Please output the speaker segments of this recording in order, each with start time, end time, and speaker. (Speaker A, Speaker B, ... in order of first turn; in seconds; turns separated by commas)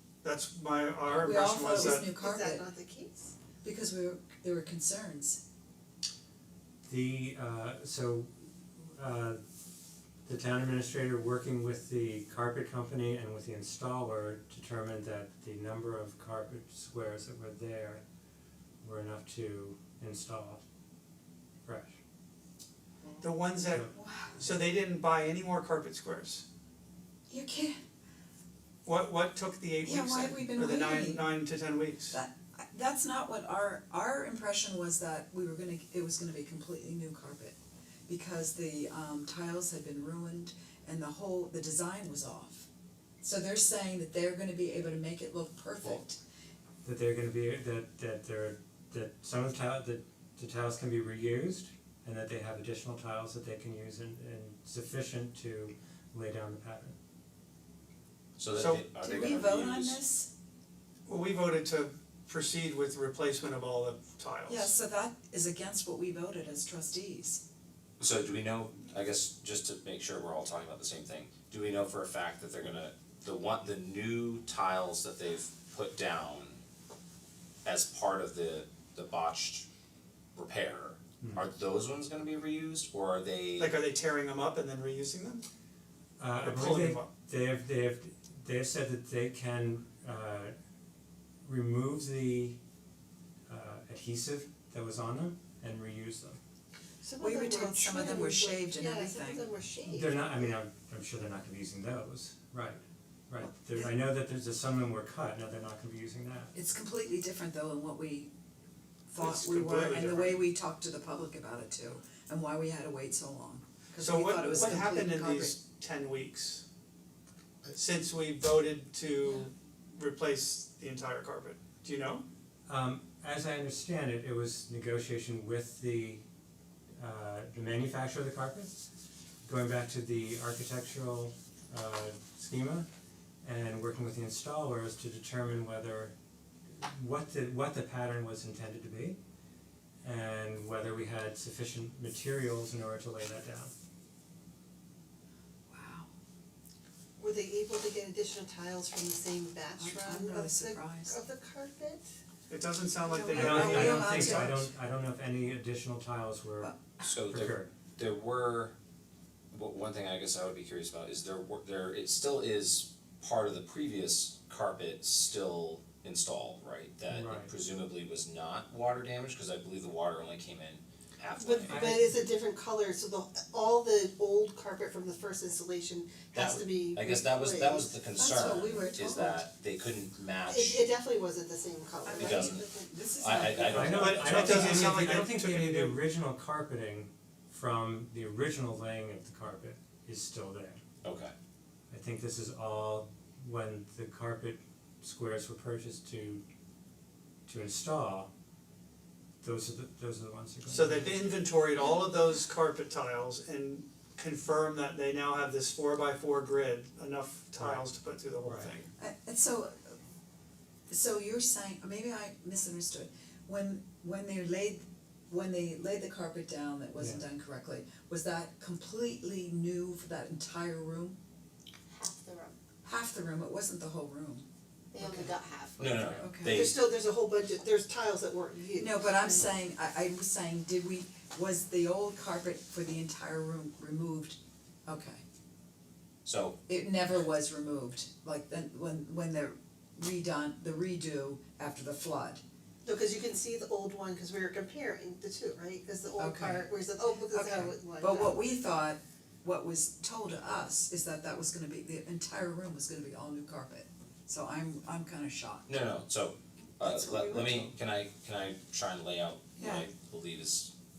Speaker A: 0.2-2.1, Speaker B: 1.2-2.7, Speaker C: 2.1-3.3, Speaker B: 3.6-5.4, Speaker D: 6.9-8.3, Speaker D: 8.9-9.4, Speaker D: 10.2-18.0, Speaker D: 18.8-20.6, Speaker D: 21.6-22.0, Speaker A: 23.2-26.4, Speaker B: 23.9-24.4, Speaker B: 27.3-27.8, Speaker A: 28.8-32.2, Speaker B: 29.8-31.3, Speaker B: 32.1-37.5, Speaker B: 38.1-42.7, Speaker B: 43.2-46.2, Speaker D: 46.8-57.0, Speaker E: 58.4-60.0, Speaker A: 58.5-58.9, Speaker B: 59.0-60.3, Speaker A: 61.1-64.7, Speaker B: 64.5-67.4, Speaker E: 68.0-76.6, Speaker E: 77.6-79.7, Speaker E: 80.3-83.7, Speaker A: 83.6-85.4, Speaker D: 86.2-90.5, Speaker A: 86.4-87.1, Speaker D: 91.4-92.6, Speaker D: 93.5-96.4, Speaker C: 97.0-100.2, Speaker B: 97.2-99.5, Speaker D: 99.8-106.5, Speaker B: 106.5-108.3, Speaker B: 109.1-115.5, Speaker A: 109.2-110.4, Speaker A: 114.0-116.6, Speaker A: 117.7-122.2, Speaker D: 122.7-126.2, Speaker D: 127.0-128.8, Speaker D: 129.4-132.8, Speaker D: 133.4-136.1, Speaker D: 136.7-139.2, Speaker D: 140.0-143.7, Speaker B: 145.7-146.1, Speaker C: 147.2-152.0, Speaker B: 149.8-151.2, Speaker A: 152.5-154.7, Speaker B: 153.1-154.5, Speaker D: 153.3-156.7, Speaker C: 153.6-154.0, Speaker E: 157.0-158.7, Speaker D: 157.3-157.7, Speaker E: 159.5-172.0, Speaker D: 167.1-167.5, Speaker C: 171.3-177.9, Speaker D: 171.7-172.2, Speaker E: 176.3-180.8, Speaker B: 178.1-179.4, Speaker C: 180.5-182.6, Speaker B: 182.0-185.0, Speaker E: 182.1-184.7, Speaker D: 183.7-190.8, Speaker A: 183.9-186.0, Speaker E: 191.0-191.3, Speaker D: 191.9-196.4, Speaker D: 197.5-198.3, Speaker D: 199.4-201.2, Speaker A: 200.7-208.9, Speaker D: 207.6-207.8, Speaker D: 208.4-208.8, Speaker B: 209.0-209.9, Speaker B: 210.9-221.2, Speaker D: 217.0-217.2, Speaker C: 221.9-222.6, Speaker B: 222.8-224.4, Speaker C: 224.9-225.9, Speaker B: 224.9-225.3, Speaker E: 225.8-226.8, Speaker B: 226.2-226.6, Speaker C: 226.4-229.5, Speaker B: 228.7-235.2, Speaker E: 236.2-236.6, Speaker B: 236.7-242.4, Speaker C: 242.8-248.4, Speaker B: 246.2-255.7, Speaker E: 255.7-260.7, Speaker B: 256.8-257.7, Speaker B: 259.6-259.9